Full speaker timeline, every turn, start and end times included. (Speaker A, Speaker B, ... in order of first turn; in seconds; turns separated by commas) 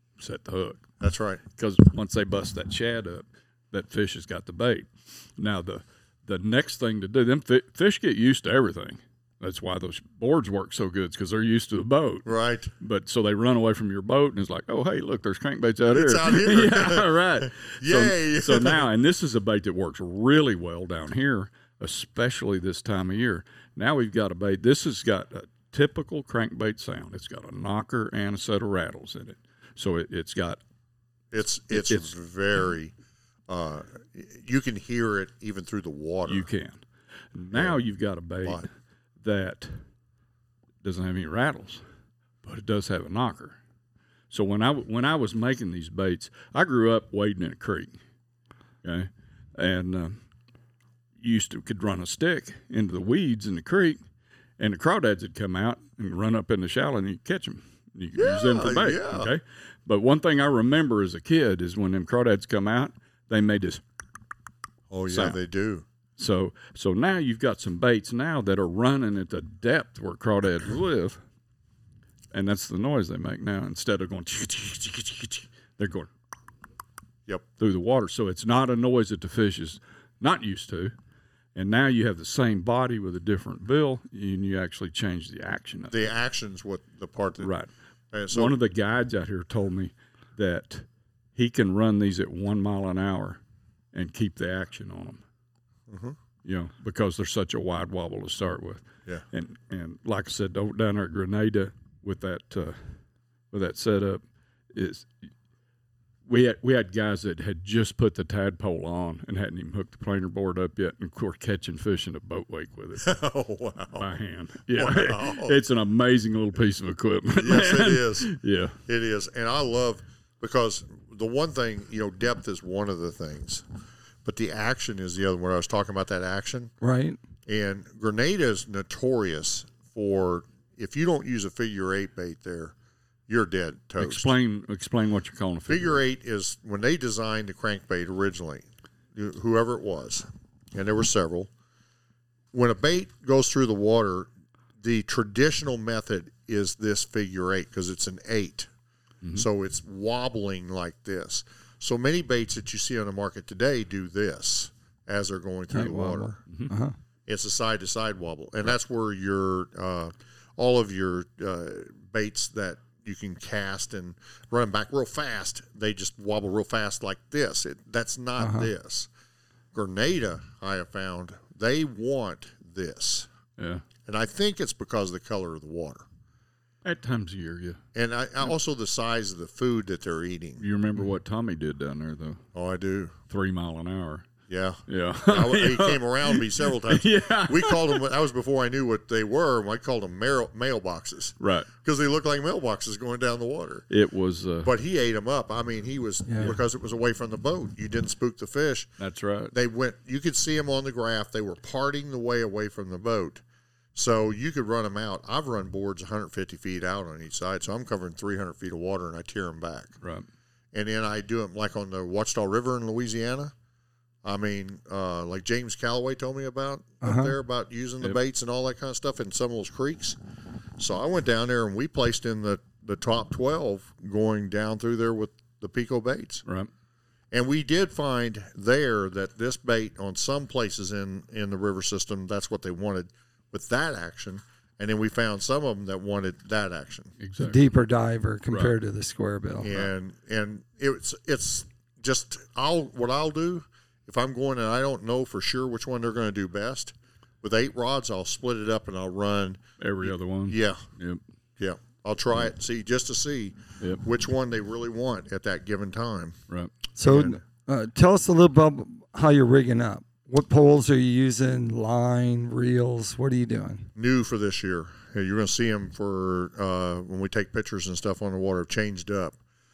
Speaker A: 0.2-0.9, Speaker B: 1.0-1.4, Speaker A: 1.6-12.3, Speaker B: 12.2-12.7, Speaker A: 12.8-30.6, Speaker B: 15.9-18.9, Speaker B: 31.3-32.9, Speaker A: 31.7-32.1, Speaker B: 33.5-36.5, Speaker A: 36.3-36.8, Speaker A: 37.3-38.7, Speaker B: 37.5-37.8, Speaker A: 39.2-39.7, Speaker A: 40.8-41.8, Speaker A: 42.4-43.6, Speaker A: 44.3-48.0, Speaker A: 48.8-50.2, Speaker A: 51.2-54.0, Speaker A: 54.6-63.8, Speaker B: 58.1-59.3, Speaker B: 64.9-65.8, Speaker A: 65.1-65.4, Speaker A: 66.2-71.2, Speaker A: 72.3-76.1, Speaker A: 77.6-80.9, Speaker A: 81.5-86.0, Speaker B: 85.9-87.5, Speaker A: 87.4-87.7, Speaker B: 88.1-88.5, Speaker A: 88.3-90.8, Speaker A: 91.4-93.4, Speaker A: 93.9-95.2, Speaker B: 95.9-96.2, Speaker A: 96.4-102.8, Speaker A: 103.5-104.2, Speaker A: 104.7-105.1, Speaker A: 106.3-113.1, Speaker B: 113.0-114.1, Speaker A: 114.0-118.8, Speaker B: 114.7-115.6, Speaker B: 117.4-118.3, Speaker B: 118.9-123.7, Speaker B: 124.2-126.7, Speaker C: 126.8-127.2, Speaker B: 127.5-132.7, Speaker B: 133.3-134.3, Speaker A: 134.0-136.0, Speaker B: 135.7-141.5, Speaker B: 142.5-144.3, Speaker B: 144.8-148.7, Speaker B: 149.3-156.4, Speaker C: 155.7-156.9, Speaker B: 157.3-169.1, Speaker C: 168.4-168.7, Speaker B: 169.7-173.3, Speaker A: 173.6-173.8, Speaker B: 174.1-176.1, Speaker A: 176.8-177.8, Speaker B: 177.9-180.6, Speaker A: 180.6-182.4, Speaker B: 182.5-183.2, Speaker A: 183.3-184.3, Speaker B: 184.5-193.8, Speaker A: 184.9-188.1, Speaker A: 191.4-191.7, Speaker A: 193.9-194.7, Speaker B: 194.6-198.9, Speaker A: 199.0-199.5, Speaker B: 199.5-203.4, Speaker B: 203.9-209.9, Speaker B: 210.7-213.5, Speaker B: 214.2-220.2, Speaker C: 217.0-217.3, Speaker B: 220.8-226.4, Speaker B: 227.3-237.1, Speaker A: 237.2-237.7, Speaker C: 237.4-239.8, Speaker B: 239.6-250.8, Speaker A: 249.8-251.2, Speaker B: 251.6-256.4, Speaker C: 257.0-263.9, Speaker B: 257.0-257.4, Speaker B: 264.0-269.4